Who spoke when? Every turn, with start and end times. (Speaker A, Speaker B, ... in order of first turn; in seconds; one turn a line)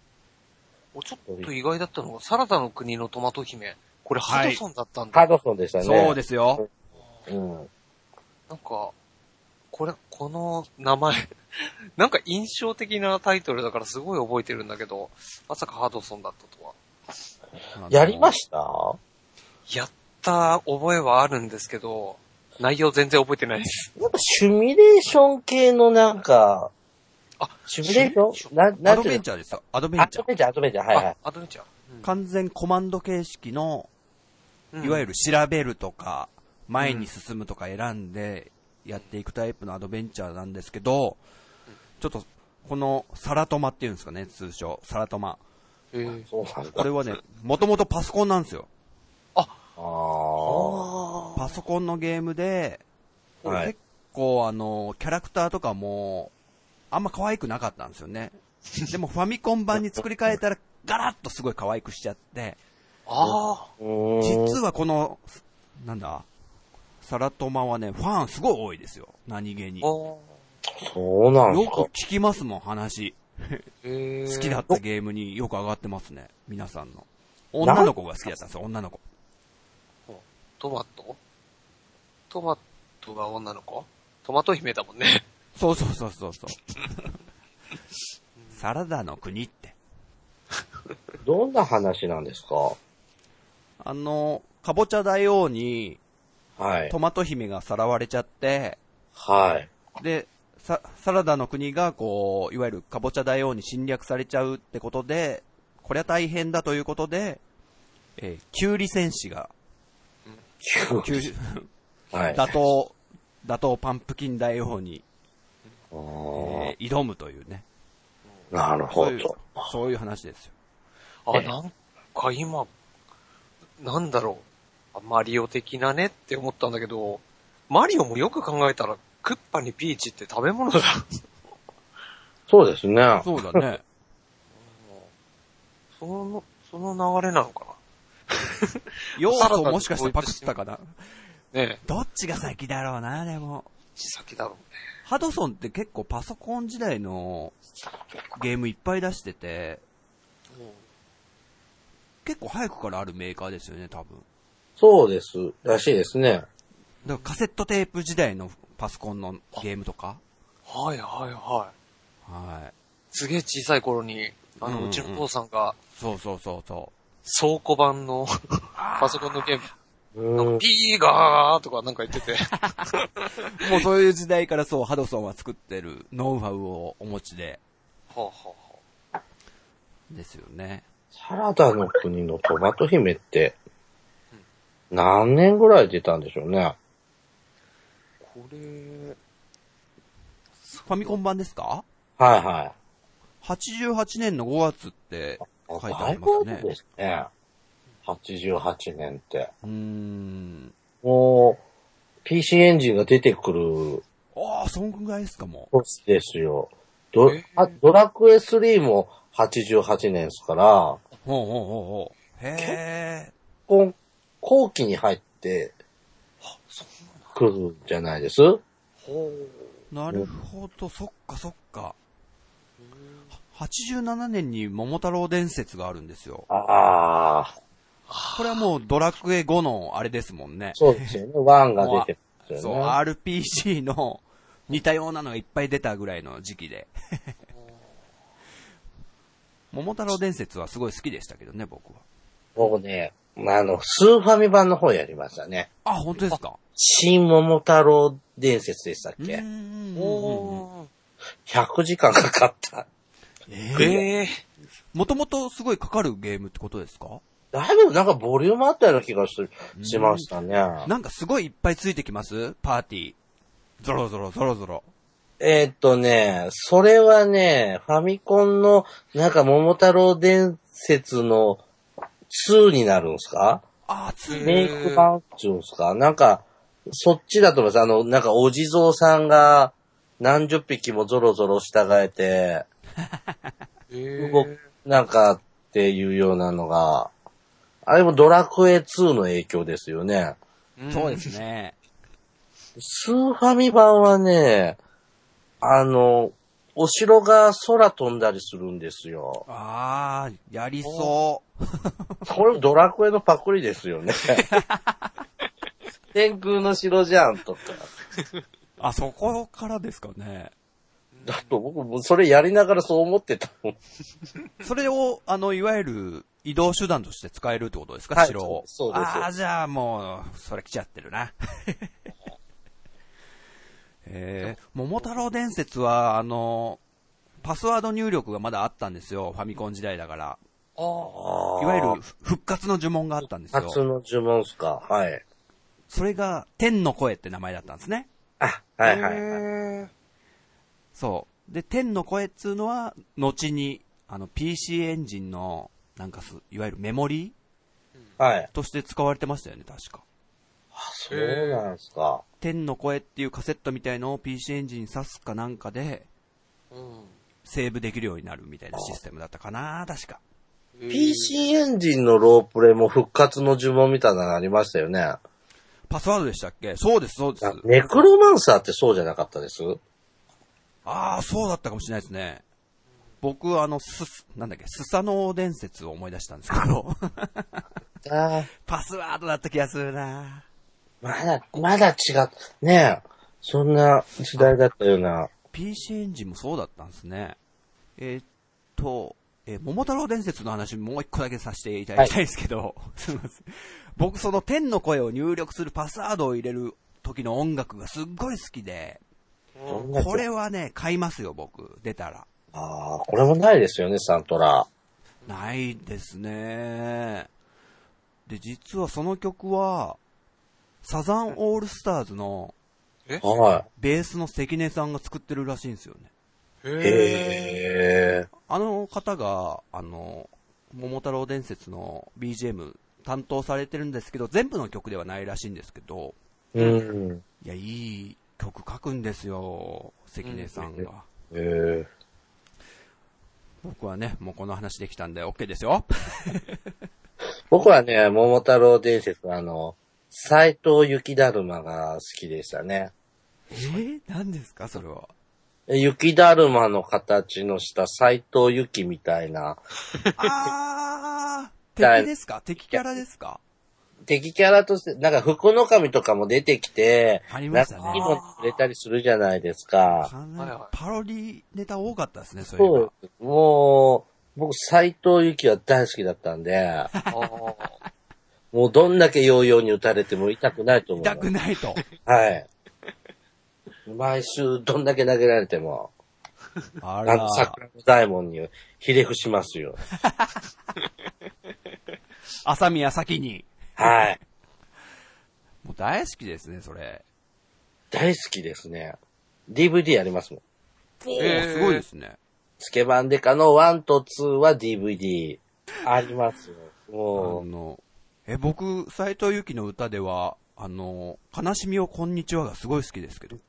Speaker A: 0.9-5.2
Speaker B: 4.2-4.6
Speaker C: 5.1-6.6
Speaker B: 5.8-6.6
Speaker C: 7.3-7.7
Speaker A: 8.5-8.9
Speaker A: 9.7-11.3
Speaker A: 12.0-16.8
Speaker B: 17.8-18.4
Speaker C: 17.9-19.0
Speaker A: 19.7-23.9
Speaker C: 24.0-26.7
Speaker A: 27.4-28.5
Speaker C: 27.7-29.2
Speaker B: 28.8-30.2
Speaker C: 30.0-31.1
Speaker A: 30.9-32.1
Speaker B: 32.0-33.9
Speaker A: 34.7-35.0
Speaker B: 34.8-41.2
Speaker A: 36.8-37.1
Speaker B: 42.0-45.4
Speaker A: 45.9-46.3
Speaker C: 46.2-46.9
Speaker B: 46.8-48.7
Speaker A: 49.3-49.6
Speaker C: 49.8-50.9
Speaker A: 50.4-51.5
Speaker B: 51.4-52.8
Speaker C: 53.4-53.7
Speaker B: 53.4-56.3
Speaker B: 56.9-58.4
Speaker B: 58.9-62.6
Speaker A: 63.1-63.7
Speaker C: 63.2-64.6
Speaker B: 64.2-66.3
Speaker B: 67.0-69.9
Speaker A: 69.8-70.2
Speaker C: 70.8-71.9
Speaker B: 71.5-73.6
Speaker A: 73.8-74.6
Speaker B: 74.3-79.0
Speaker C: 77.6-77.9
Speaker A: 80.1-81.2
Speaker A: 82.3-85.2
Speaker B: 85.5-87.1
Speaker B: 88.5-89.7
Speaker C: 91.2-92.8
Speaker B: 93.8-96.0
Speaker C: 96.6-96.9
Speaker B: 96.9-98.8
Speaker C: 99.2-99.7
Speaker B: 100.0-107.4
Speaker B: 108.2-109.5
Speaker C: 110.6-111.3
Speaker B: 111.0-111.7
Speaker C: 112.1-112.5
Speaker B: 112.3-115.0
Speaker C: 115.9-116.7
Speaker B: 116.3-117.6
Speaker C: 118.5-119.5
Speaker B: 118.9-120.5
Speaker A: 121.2-122.7
Speaker A: 123.8-131.2
Speaker C: 132.5-133.6
Speaker B: 133.2-133.8
Speaker A: 134.6-135.1
Speaker A: 136.0-137.8
Speaker A: 138.3-140.5
Speaker B: 139.1-141.0
Speaker A: 141.5-141.8
Speaker B: 141.8-143.7
Speaker A: 144.0-144.7
Speaker B: 145.1-147.6
Speaker B: 148.4-149.8
Speaker A: 150.5-150.8
Speaker B: 152.2-154.2
Speaker C: 154.8-156.4
Speaker A: 157.0-157.3
Speaker B: 157.0-160.2
Speaker A: 160.7-161.7
Speaker B: 162.2-162.7
Speaker A: 163.1-165.8
Speaker B: 164.6-165.2
Speaker B: 165.9-166.9
Speaker A: 167.2-169.7
Speaker B: 168.8-169.5
Speaker C: 170.1-170.6
Speaker A: 170.4-173.7
Speaker B: 172.5-172.8
Speaker B: 173.4-177.6
Speaker A: 178.1-178.8
Speaker B: 180.1-180.8
Speaker C: 181.2-183.6
Speaker C: 184.9-186.8
Speaker A: 188.2-189.2
Speaker A: 190.6-191.2
Speaker B: 190.9-191.8
Speaker C: 192.2-192.7
Speaker B: 193.4-196.7
Speaker C: 195.5-197.3
Speaker C: 198.1-199.5
Speaker B: 199.6-200.7
Speaker C: 201.0-201.6
Speaker C: 202.2-204.0
Speaker B: 204.3-205.7
Speaker C: 205.7-211.0
Speaker A: 207.2-207.8
Speaker B: 211.2-213.3
Speaker C: 213.7-215.7
Speaker A: 216.4-217.3
Speaker C: 217.3-218.6
Speaker A: 219.0-219.7
Speaker B: 219.9-221.9
Speaker A: 222.8-223.3
Speaker B: 223.5-226.5
Speaker C: 226.5-227.5
Speaker A: 228.1-228.6
Speaker B: 228.3-231.1
Speaker C: 230.8-232.9
Speaker B: 231.8-236.9
Speaker A: 237.5-237.8
Speaker B: 239.7-242.0
Speaker C: 242.6-245.7
Speaker B: 245.8-246.6
Speaker C: 246.8-249.4
Speaker B: 249.2-250.6
Speaker A: 249.9-250.9
Speaker C: 251.5-252.9
Speaker B: 253.5-253.9
Speaker C: 253.8-254.1
Speaker A: 253.8-254.4
Speaker B: 254.9-257.2
Speaker C: 257.5-260.9
Speaker B: 259.8-260.3
Speaker B: 260.8-263.1
Speaker B: 263.8-264.8
Speaker C: 265.4-271.6
Speaker C: 272.3-273.6
Speaker B: 273.9-274.6
Speaker A: 274.3-275.1
Speaker C: 274.4-282.6
Speaker A: 283.9-284.6
Speaker C: 284.2-287.1
Speaker C: 287.8-290.4
Speaker A: 290.8-291.3
Speaker B: 290.9-291.7
Speaker C: 292.8-294.8
Speaker C: 295.6-299.4
Speaker B: 299.5-301.9
Speaker A: 300.8-301.1
Speaker C: 302.3-304.4
Speaker B: 304.5-305.1
Speaker C: 306.1-307.9
Speaker B: 308.8-310.5
Speaker A: 311.1-311.6
Speaker C: 311.2-313.8
Speaker B: 314.6-321.9
Speaker C: 318.1-319.3
Speaker B: 324.0-326.8
Speaker B: 327.4-330.4
Speaker A: 330.8-331.1
Speaker C: 331.0-332.0
Speaker B: 331.6-333.8
Speaker C: 333.5-335.2
Speaker B: 335.9-338.1
Speaker C: 338.4-339.4
Speaker A: 338.8-339.9
Speaker B: 340.9-347.3
Speaker C: 348.2-348.5
Speaker B: 348.5-350.0
Speaker C: 350.7-352.2
Speaker A: 351.1-351.7
Speaker B: 352.4-356.1
Speaker A: 356.7-357.1
Speaker B: 357.4-360.2
Speaker A: 360.8-361.4
Speaker C: 360.9-365.2
Speaker B: 365.9-367.6
Speaker C: 367.4-369.8
Speaker B: 370.9-372.4
Speaker B: 373.2-377.6
Speaker C: 378.0-378.5
Speaker B: 378.6-380.4
Speaker C: 381.0-385.3
Speaker B: 385.5-387.4
Speaker B: 388.0-388.2
Speaker B: 388.8-399.0
Speaker A: 399.6-399.9
Speaker C: 399.7-400.2
Speaker B: 399.9-402.3
Speaker C: 402.5-404.7
Speaker B: 405.2-407.3
Speaker B: 408.2-410.0
Speaker B: 410.8-412.5
Speaker C: 413.2-413.6
Speaker B: 413.8-416.1
Speaker A: 416.6-417.6
Speaker C: 416.8-418.3
Speaker B: 418.5-426.1
Speaker C: 426.5-427.2
Speaker A: 426.6-426.8
Speaker B: 427.4-431.1
Speaker A: 430.2-430.5
Speaker C: 430.6-431.9
Speaker B: 433.6-436.6
Speaker C: 437.5-442.9
Speaker B: 443.5-445.1
Speaker C: 445.7-449.6
Speaker B: 450.1-453.4
Speaker C: 451.8-452.1
Speaker C: 452.7-453.0
Speaker C: 454.1-460.1
Speaker B: 457.3-458.1
Speaker A: 457.8-458.6
Speaker B: 459.8-462.9
Speaker A: 460.4-460.7
Speaker C: 462.6-466.9
Speaker B: 466.9-467.2
Speaker A: 467.1-467.8
Speaker C: 468.5-471.2
Speaker B: 471.0-471.8
Speaker C: 472.0-472.5
Speaker C: 473.9-475.9
Speaker B: 476.8-477.6
Speaker C: 477.1-479.8
Speaker B: 480.0-480.4
Speaker B: 482.4-484.2
Speaker C: 483.8-484.2
Speaker B: 485.6-487.0
Speaker C: 487.9-489.0
Speaker C: 489.5-490.4
Speaker B: 491.0-492.2
Speaker A: 491.2-491.8
Speaker C: 492.6-497.4
Speaker B: 497.1-503.4